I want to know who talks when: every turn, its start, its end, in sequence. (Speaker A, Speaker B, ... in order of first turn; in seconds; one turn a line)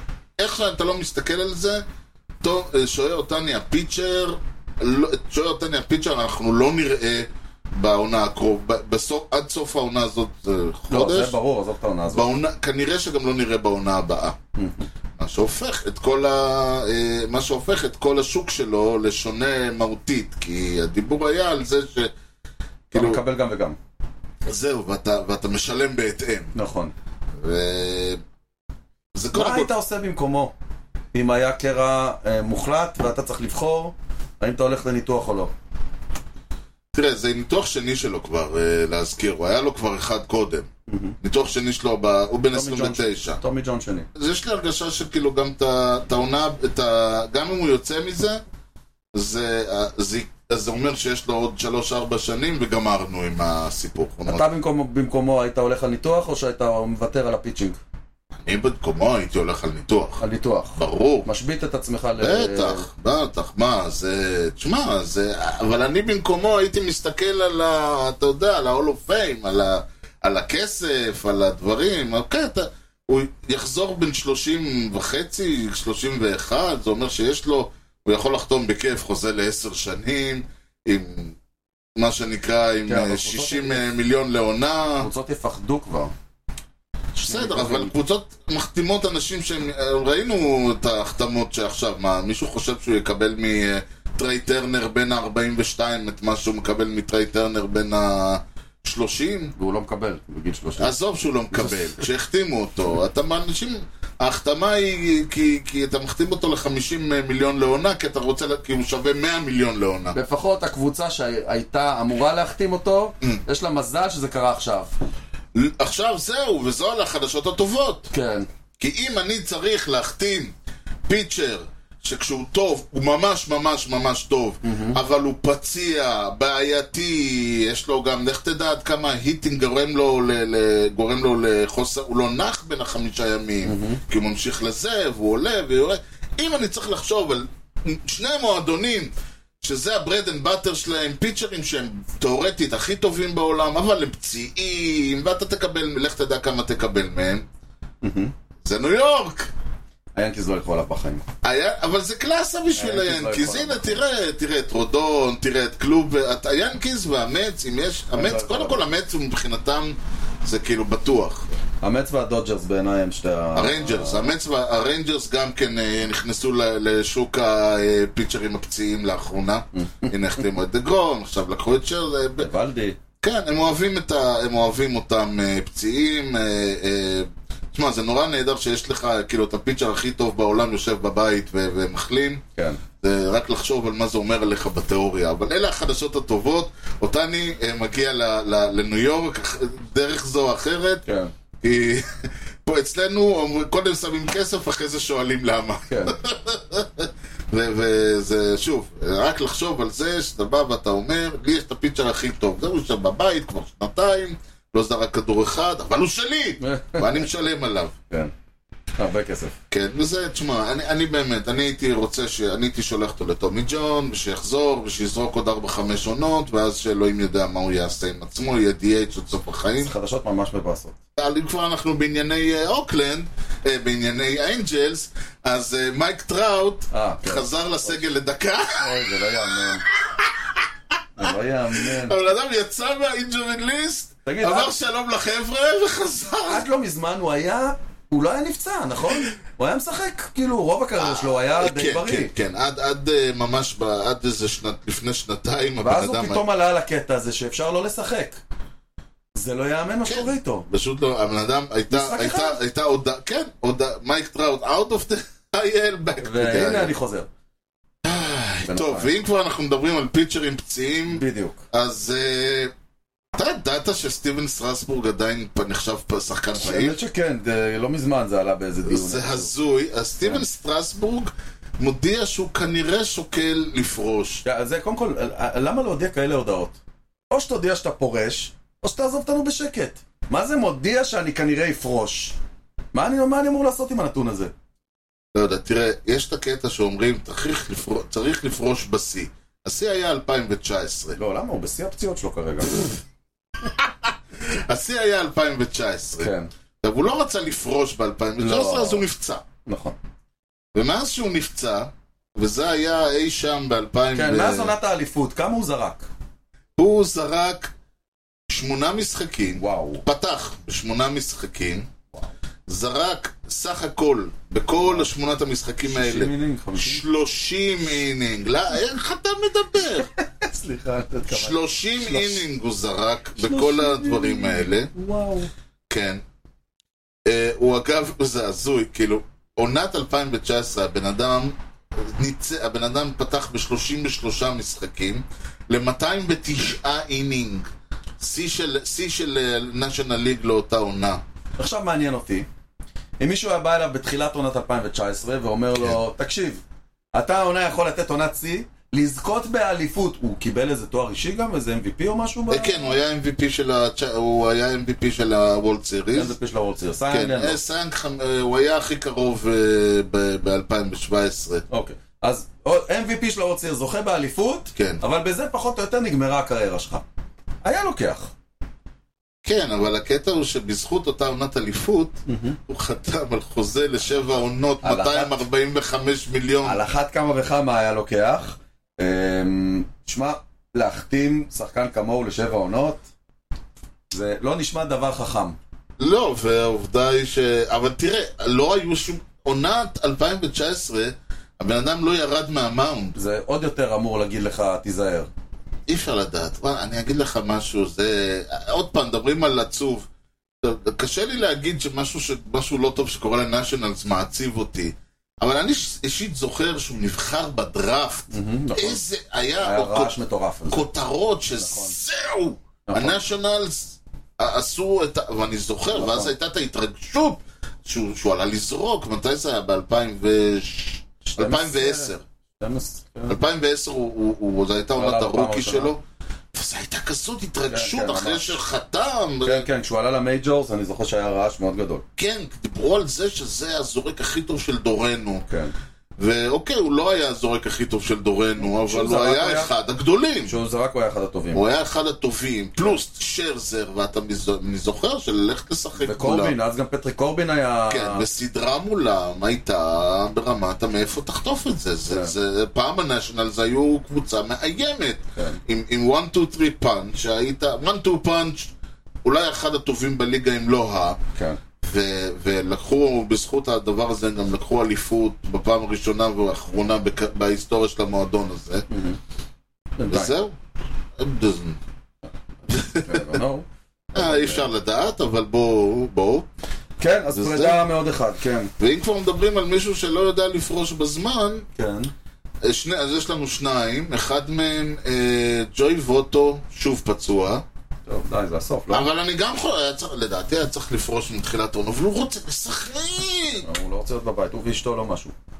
Speaker A: 0.4-1.8
Speaker A: 2.4-11.4
Speaker B: 10.9-12.3
Speaker A: 12.1-14.4
Speaker B: 14.6-14.9
Speaker A: 15.2-22.1
Speaker A: 22.9-23.2
Speaker B: 22.9-23.8
Speaker A: 24.4-26.5
Speaker B: 26.5-26.9
Speaker A: 27.4-28.2
Speaker A: 29.1-29.7
Speaker B: 29.3-30.5
Speaker B: 31.1-35.5
Speaker A: 36.9-40.7
Speaker B: 40.9-41.1
Speaker A: 41.2-43.4
Speaker B: 42.5-44.1
Speaker A: 44.1-48.4
Speaker A: 49.1-54.5
Speaker B: 54.3-57.8
Speaker A: 58.4-60.2
Speaker B: 60.2-62.9
Speaker A: 60.8-61.3
Speaker A: 62.2-81.3
Speaker A: 82.0-85.1
Speaker B: 82.9-83.9
Speaker B: 85.0-86.1
Speaker B: 87.2-87.9
Speaker A: 87.2-99.5
Speaker B: 99.5-100.9
Speaker A: 100.8-110.2
Speaker B: 101.5-102.0
Speaker B: 110.1-114.9
Speaker A: 115.5-118.1
Speaker B: 118.1-118.5
Speaker A: 118.8-120.5
Speaker A: 121.1-147.4
Speaker B: 124.6-125.0
Speaker B: 133.6-134.0
Speaker B: 148.0-148.3
Speaker A: 148.6-149.5
Speaker B: 150.1-151.2
Speaker A: 151.4-161.4
Speaker B: 152.7-154.0
Speaker B: 158.1-158.8
Speaker B: 161.8-164.3
Speaker A: 163.5-172.5
Speaker B: 169.7-170.1
Speaker B: 172.4-173.0
Speaker A: 173.2-182.4
Speaker B: 182.6-182.8
Speaker A: 183.0-191.0
Speaker B: 191.1-191.3
Speaker A: 191.6-207.9
Speaker B: 195.9-196.2
Speaker B: 206.6-207.2
Speaker B: 209.0-209.5
Speaker A: 209.7-219.9
Speaker B: 219.8-221.0
Speaker A: 221.2-230.7
Speaker B: 226.9-228.1
Speaker B: 228.8-229.8
Speaker B: 231.2-232.2
Speaker A: 231.2-236.6
Speaker B: 234.2-234.7
Speaker B: 236.5-242.3
Speaker A: 241.0-246.4
Speaker B: 245.8-248.4
Speaker B: 249.3-250.7
Speaker A: 250.1-256.9
Speaker B: 251.9-252.6
Speaker B: 256.2-257.3
Speaker A: 258.0-262.7
Speaker B: 258.6-259.1
Speaker B: 261.1-261.6
Speaker A: 263.3-267.0
Speaker B: 266.6-269.5
Speaker A: 268.8-274.4
Speaker B: 274.4-276.8
Speaker B: 277.3-282.4
Speaker B: 282.9-284.5
Speaker A: 285.3-291.2
Speaker B: 291.1-292.9
Speaker A: 293.6-299.4
Speaker B: 296.2-296.5
Speaker B: 298.4-299.0
Speaker B: 299.6-299.9
Speaker A: 300.7-304.7
Speaker B: 304.1-306.1
Speaker A: 306.8-307.7
Speaker A: 308.5-311.9
Speaker B: 309.6-310.0
Speaker A: 312.7-320.1
Speaker B: 314.8-315.1
Speaker B: 315.9-317.0
Speaker B: 320.0-322.4
Speaker A: 321.3-324.9
Speaker B: 323.4-325.5
Speaker A: 325.9-326.2
Speaker A: 327.2-337.7
Speaker A: 338.2-341.2
Speaker B: 341.6-342.5
Speaker B: 343.2-346.6
Speaker B: 347.1-352.9
Speaker A: 352.5-356.3
Speaker B: 356.1-357.6
Speaker A: 357.1-361.6
Speaker B: 361.7-367.0
Speaker A: 364.8-365.0
Speaker B: 367.6-368.3
Speaker A: 369.4-376.8
Speaker B: 372.3-372.6
Speaker B: 374.8-375.4
Speaker B: 376.6-383.0
Speaker B: 384.1-385.6
Speaker A: 386.0-393.1
Speaker B: 393.1-395.3
Speaker A: 395.9-400.1
Speaker A: 400.6-410.1
Speaker B: 408.3-409.0
Speaker B: 409.6-410.9
Speaker A: 410.7-422.2
Speaker B: 411.6-411.9
Speaker B: 412.9-413.2
Speaker B: 415.9-416.3
Speaker B: 421.4-423.4
Speaker A: 423.3-426.0
Speaker B: 424.9-425.9
Speaker A: 426.5-429.7
Speaker B: 427.7-428.6
Speaker B: 429.4-432.0
Speaker A: 432.2-435.4
Speaker B: 435.4-435.7
Speaker A: 436.2-440.5
Speaker B: 438.6-439.7
Speaker B: 440.4-441.6
Speaker A: 441.5-446.6
Speaker B: 446.0-448.2
Speaker A: 447.9-458.7
Speaker A: 459.2-461.2
Speaker B: 461.3-461.6
Speaker A: 461.8-468.9
Speaker B: 468.9-469.2
Speaker B: 470.0-470.3
Speaker A: 470.1-470.5
Speaker A: 471.2-471.8
Speaker B: 472.6-474.6
Speaker A: 472.7-473.4
Speaker A: 474.1-476.4
Speaker B: 477.0-478.7
Speaker A: 477.3-477.9
Speaker A: 478.8-481.6
Speaker B: 481.8-482.1
Speaker A: 482.6-487.6
Speaker B: 488.1-489.1
Speaker A: 488.9-493.7
Speaker B: 493.6-495.3